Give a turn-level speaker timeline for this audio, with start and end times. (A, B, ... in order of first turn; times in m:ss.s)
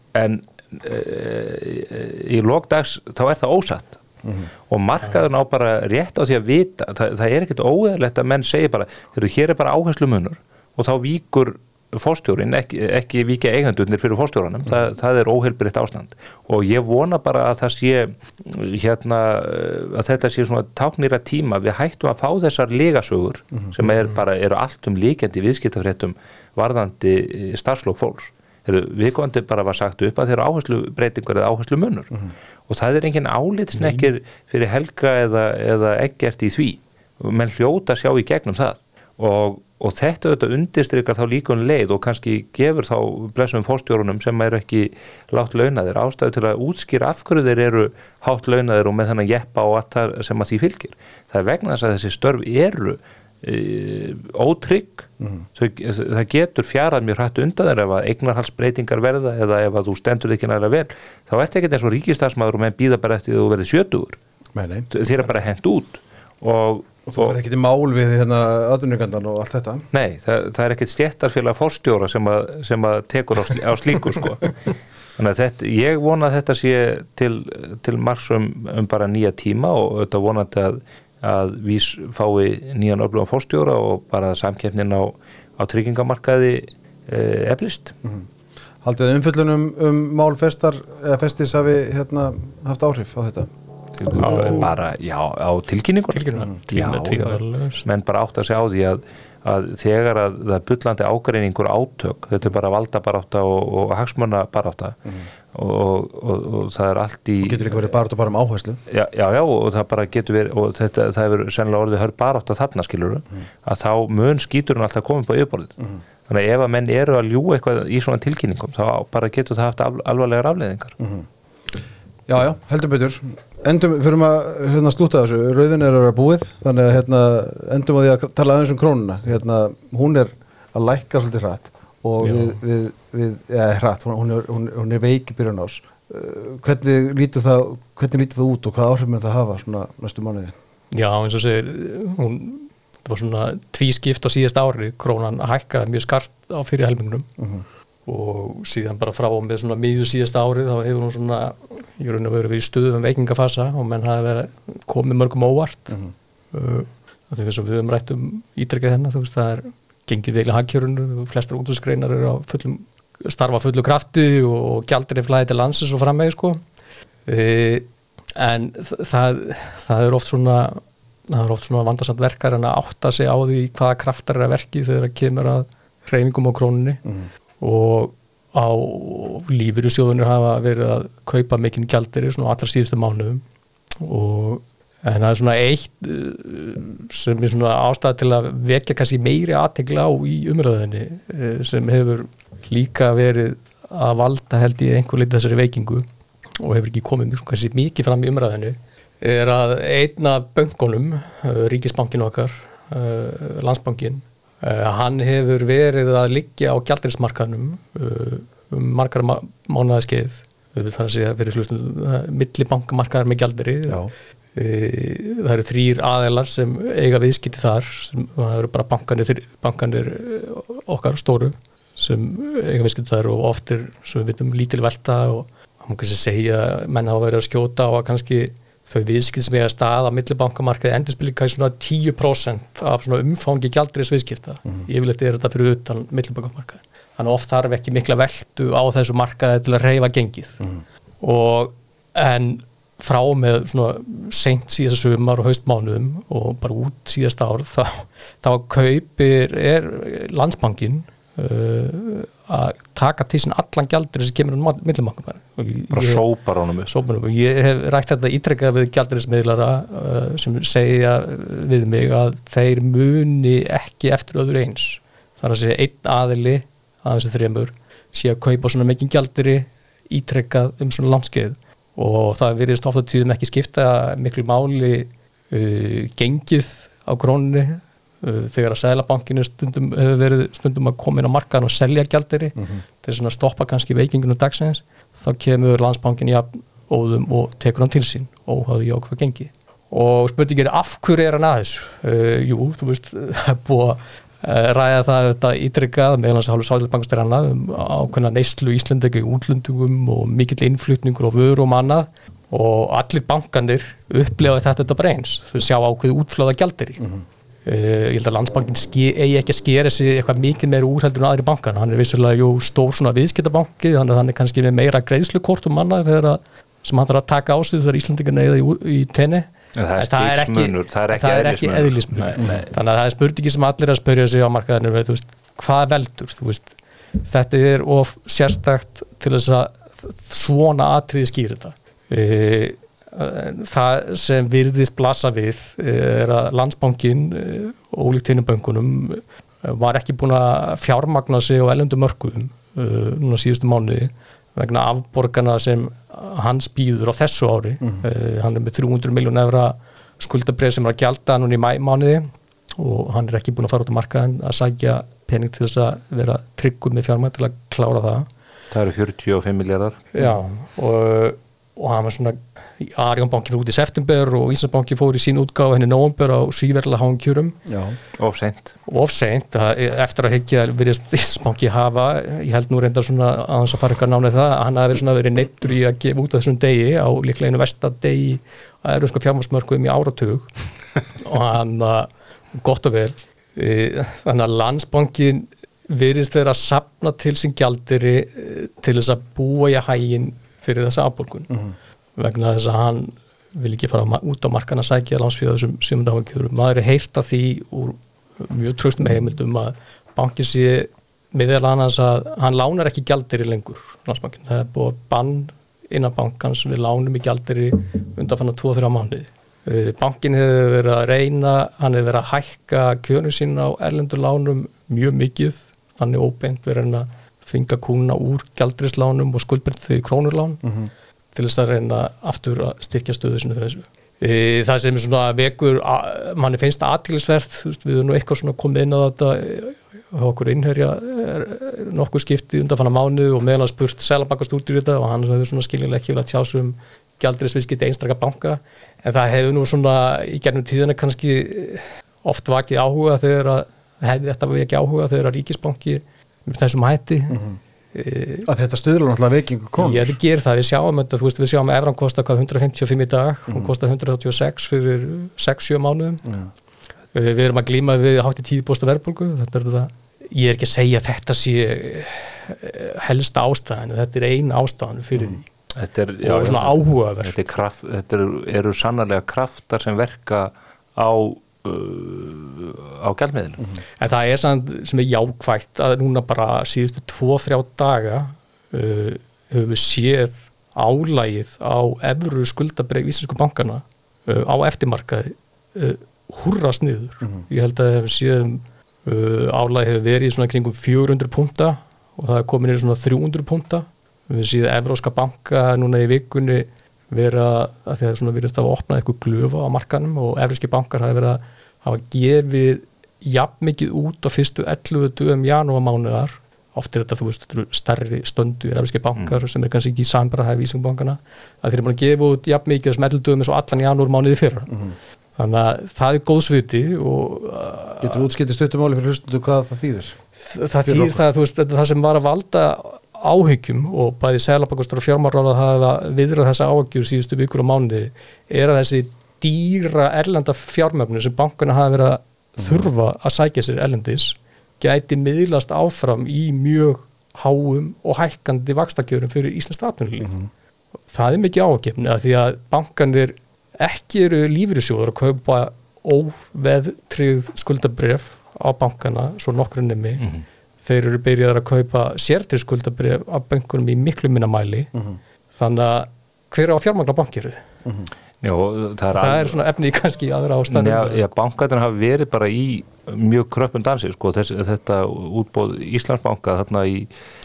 0:00.2-0:04.0 A
0:04.7-0:32.1 A
0:32.7-1:04.2 A
0:33.8-0:34.1 B
1:04.6-1:04.9 C
1:04.9-1:07.4 A
1:07.1-1:09.9 C
1:09.9-1:14.5 A
1:15.2-1:28.0 A
1:28.8-1:33.5 C
1:34.1-1:34.7 B
1:34.1-1:45.0 A
1:34.2-1:34.5 C
1:36.1-1:37.9 B
1:45.5-1:47.9 A
1:47.4-1:48.8 C
1:48.9-1:55.8 A
1:56.3-2:01.0 A
2:01.0-2:01.3 C
2:02.3-2:20.5 C
2:12.2-2:12.6 B
2:20.9-2:27.3 B
2:27.4-2:27.6 C
2:28.1-2:36.0 B
2:36.5-2:46.6 B
2:47.3-2:57.0 B
2:57.6-3:03.4 B
3:04.0-3:16.1 B
3:16.6-3:34.0 B
3:34.6-4:00.6 B
4:01.2-4:16.2 B
4:15.9-4:16.9 A
4:16.9-5:07.0 B
5:07.7-5:58.3 B
5:19.8-5:22.7 A
5:58.7-6:00.0 A
6:00.2-6:07.6 B
6:07.7-6:08.0 C
6:08.2-6:08.7 A
6:08.9-6:20.5 B
6:21.2-6:31.6 B
6:32.2-7:00.6 B
7:00.6-7:00.9 C
7:01.3-7:27.4 B
7:27.3-7:27.6 C
7:27.9-7:28.5 B
7:28.5-7:30.2 C
7:29.8-7:36.2 B
7:37.1-7:45.4 B
7:45.8-7:53.7 A
7:46.2-7:47.4 B
7:54.0-8:34.8 B
8:35.4-8:38.2 B
8:38.0-8:40.2 C
8:40.5-9:00.3 B
8:40.8-8:41.2 C
9:01.1-9:10.2 B
9:10.8-9:14.9 B
9:15.6-9:17.6 B
9:18.4-9:19.6 A
9:19.1-9:21.2 B
9:20.7-9:27.1 A